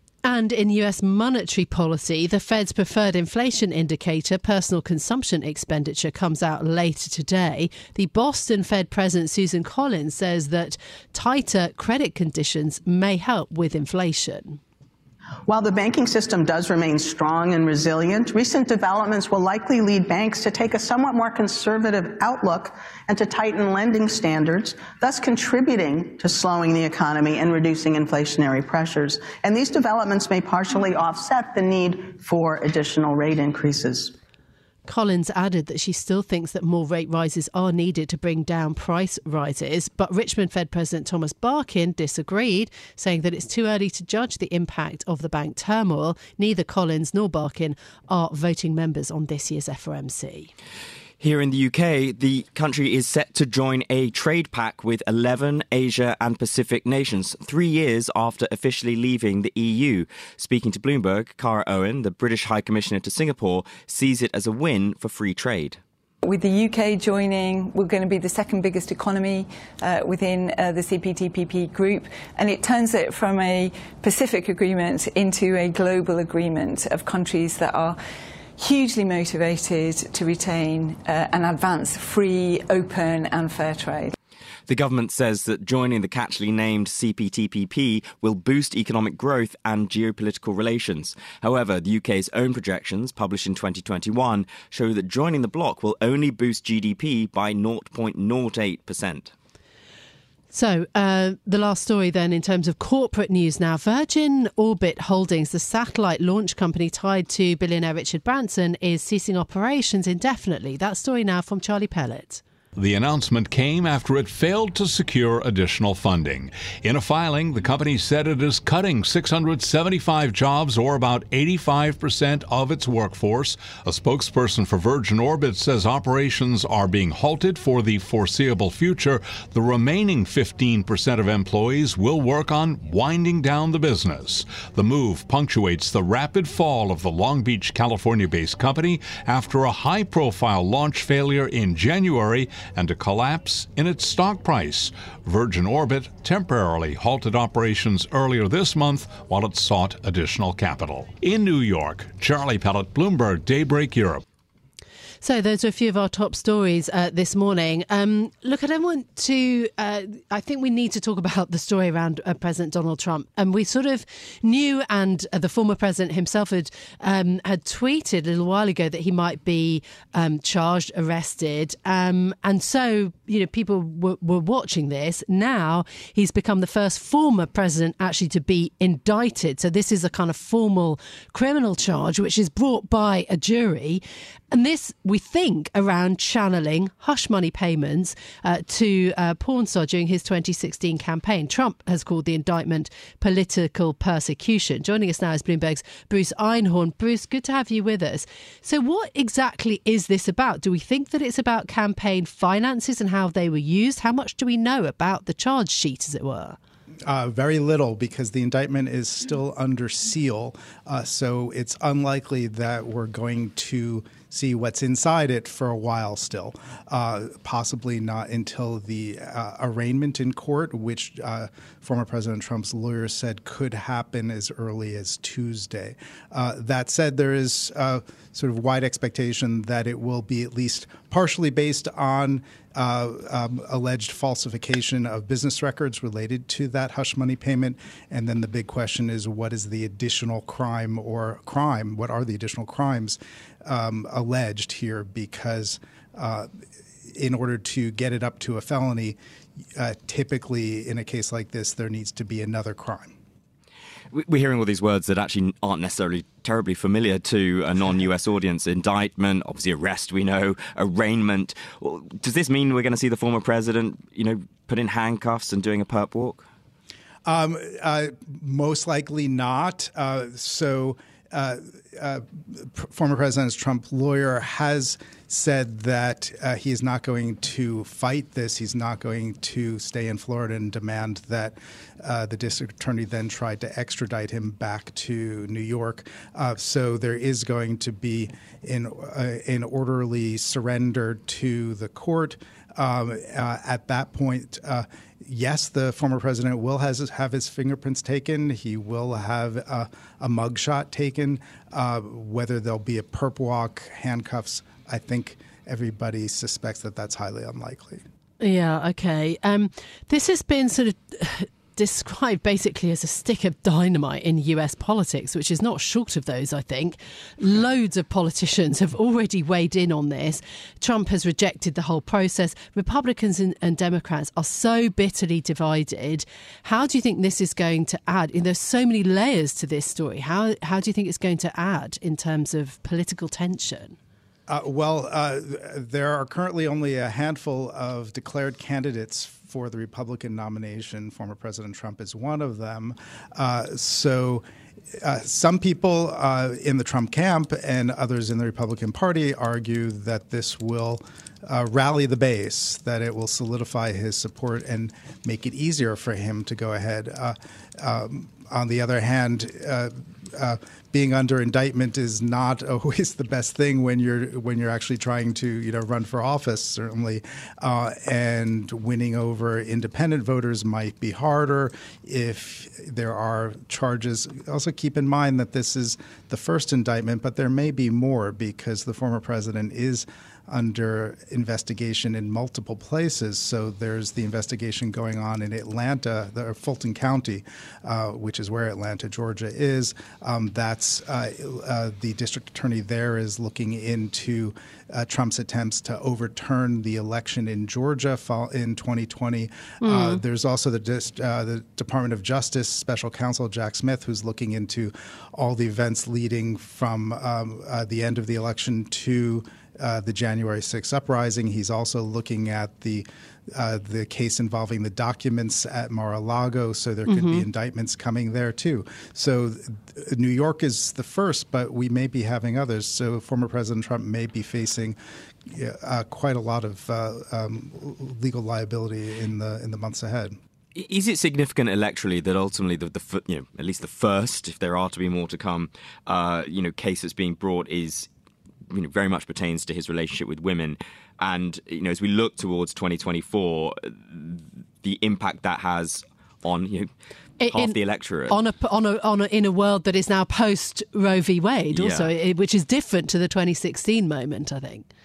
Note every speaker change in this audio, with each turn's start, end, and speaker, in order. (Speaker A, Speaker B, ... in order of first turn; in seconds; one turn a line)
Speaker A: 0.2-14.6
Speaker B: 15.5-34.1
Speaker A: 34.9-50.5
Speaker C: 51.2-65.8
Speaker D: 66.2-78.0
Speaker D: 78.6-84.1
Speaker C: 84.7-99.3
Speaker A: 100.5-112.4
Speaker E: 112.8-154.2
Speaker A: 155.2-206.6
Speaker F: 207.1-246.5
Speaker F: 247.2-249.2
Speaker F: 249.8-253.1
Speaker C: 254.1-266.5
Speaker F: 267.3-308.0
Speaker A: 308.4-334.0
Speaker F: 334.5-344.4
Speaker F: 345.0-425.0
Speaker A: 399.8-400.2
Speaker A: 417.1-417.5
Speaker F: 425.5-430.4
Speaker C: 430.8-438.1
Speaker C: 438.7-446.9
Speaker A: 447.4-454.9
Speaker C: 447.5-448.4
Speaker C: 451.7-452.1